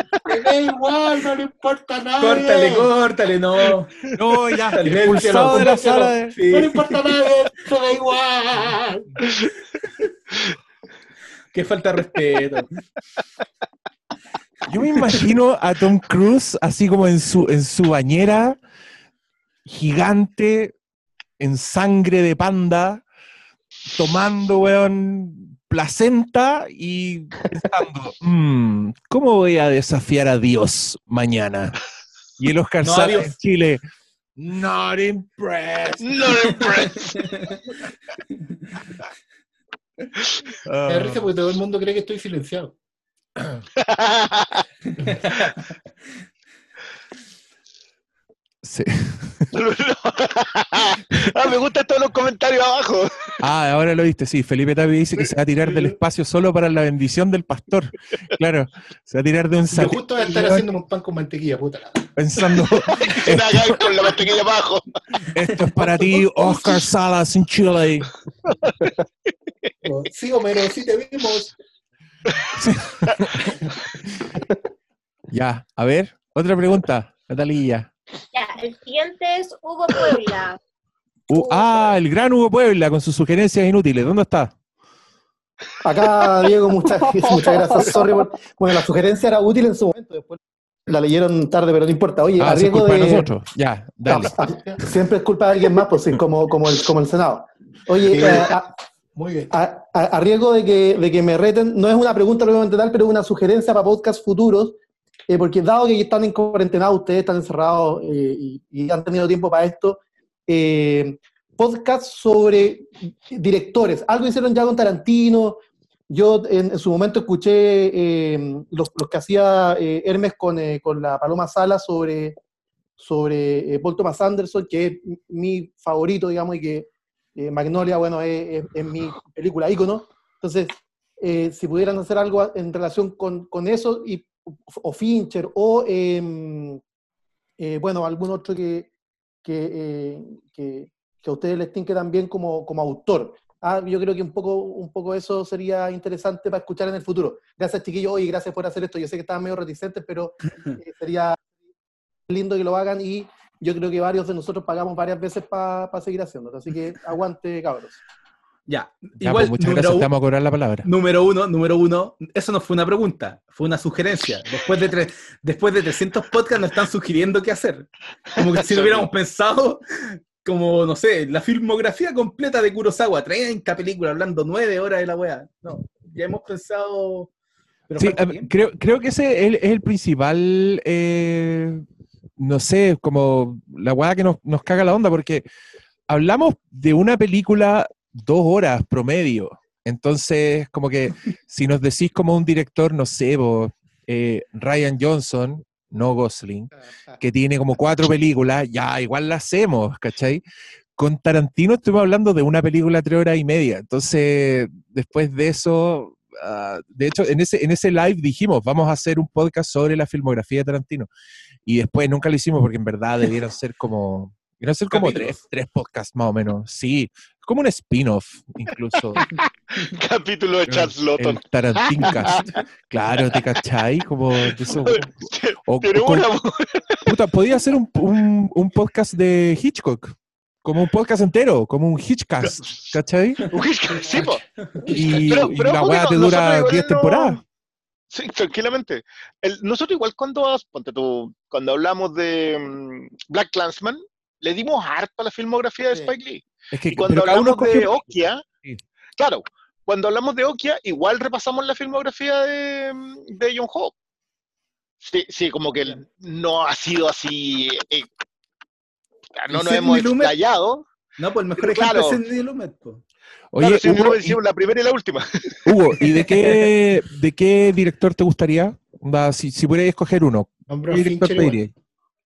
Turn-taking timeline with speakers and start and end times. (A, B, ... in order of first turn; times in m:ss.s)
0:00.2-0:02.9 A
0:02.2-0:04.0 B
0:04.1-0:06.4 C
0:04.7-0:05.7 B
0:04.8-0:09.1 A
0:06.5-0:06.8 B
0:11.5-0:12.7 B
0:14.7-0:18.6 C
0:19.7-0:20.8 C
0:21.4-0:23.0 C
0:23.9-0:31.8 C
0:32.4-0:33.8 C
0:32.8-0:33.3 B
0:34.4-0:36.3 C
0:36.0-0:37.3 D
0:40.7-0:41.3 C
0:40.9-0:42.8 A
0:43.8-0:44.6 D
0:48.6-0:49.5 C
0:49.5-0:53.3 D
0:53.4-1:00.7 C
0:55.6-0:56.0 A
0:59.7-1:02.1 A
1:02.2-1:03.7 C
1:03.1-1:04.8 D
1:05.3-1:08.1 C
1:06.2-1:06.8 A
1:09.8-1:11.6 A
1:12.6-1:13.5 C
1:13.5-1:13.7 A
1:15.3-1:17.9 C
1:18.3-1:20.6 E
1:21.3-1:24.5 C
1:21.3-1:21.7 E
1:25.8-1:33.3 F
1:32.4-1:34.3 C
1:34.1-1:38.7 F
1:38.1-1:38.6 A
1:39.2-1:39.6 A
1:39.5-1:44.8 F
1:45.3-2:02.4 F
2:03.0-2:16.8 F
2:17.6-2:18.9 F
2:19.4-2:31.4 F
2:32.3-2:38.0 F
2:38.7-2:40.1 B
2:39.2-2:40.9 C
2:40.8-2:57.3 B
2:57.9-2:58.5 B
2:58.0-3:01.8 C
3:02.4-3:05.5 C
3:06.1-3:20.4 C
3:21.0-3:31.1 C
3:31.7-3:39.2 C
3:34.9-3:35.4 B
3:39.8-3:41.4 D
3:40.7-3:42.4 C
3:42.0-3:42.4 D
3:42.9-3:45.1 C
3:44.7-3:47.0 D
3:45.7-3:46.3 C
3:47.1-3:53.4 C
3:53.5-3:57.4 D
3:54.1-3:54.4 A
3:54.9-3:55.1 E
3:54.9-3:57.4 C
3:58.1-4:08.4 D
4:06.7-4:08.0 C
4:09.2-4:13.9 D
4:15.0-4:18.1 D
4:19.4-4:20.9 D
4:19.5-4:20.3 B
4:21.2-4:23.0 B
4:21.6-4:22.2 D
4:23.5-4:24.4 C
4:23.6-4:25.6 D
4:25.6-4:31.7 C
4:26.2-4:26.6 B
4:30.7-4:31.6 A